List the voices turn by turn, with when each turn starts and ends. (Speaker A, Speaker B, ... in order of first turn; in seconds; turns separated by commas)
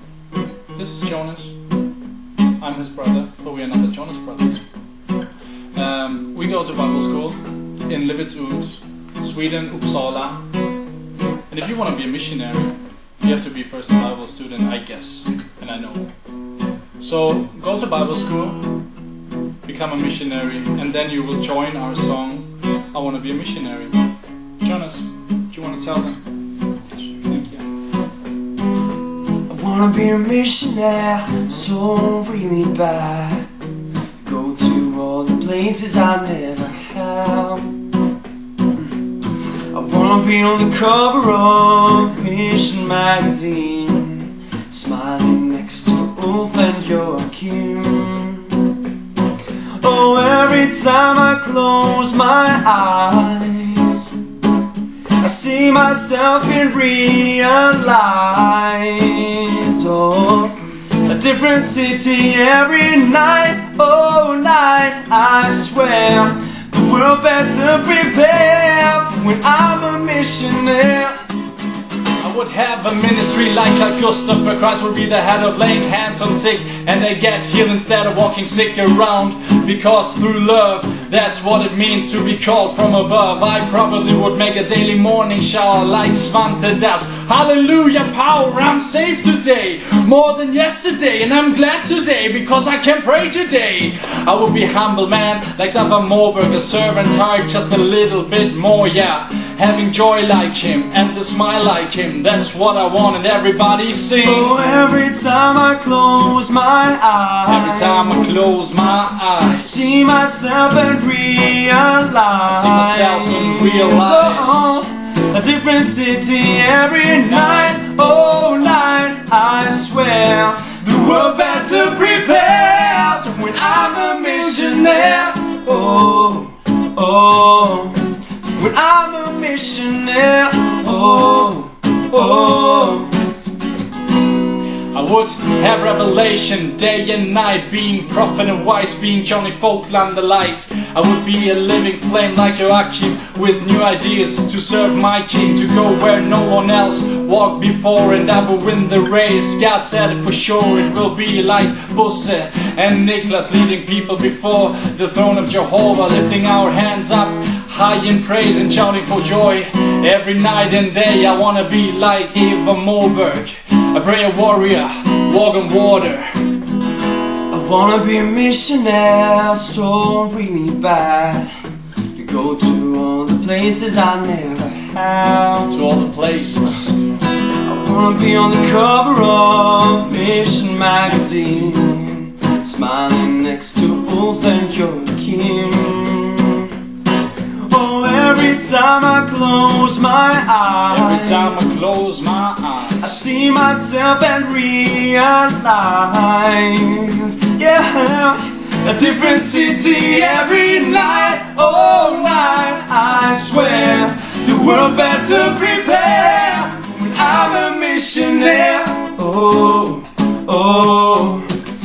Speaker A: 0.7-1.5, Speaker A: 2.6-4.6, Speaker A: 5.7-10.3, Speaker A: 11.5-16.1, Speaker A: 17.0-18.6, Speaker A: 19.6-23.9, Speaker A: 24.6-26.2, Speaker A: 27.1-27.6, Speaker B: 29.5-33.5, Speaker B: 34.2-37.8, Speaker B: 39.7-48.6, Speaker B: 49.8-54.2, Speaker B: 55.2-71.1, Speaker A: 72.2-104.5, Speaker B: 104.2-108.3, Speaker A: 107.5-110.0, Speaker B: 109.4-133.2, Speaker A: 112.5-114.8, Speaker A: 117.3-118.7, Speaker A: 134.9-166.5, Speaker B: 167.5-171.5, Speaker B: 172.1-175.8, Speaker A: 175.7-176.9, Speaker B: 177.6-186.7, Speaker A: 180.0-181.8, Speaker B: 187.7-191.6, Speaker A: 190.9-193.2, Speaker B: 193.0-211.5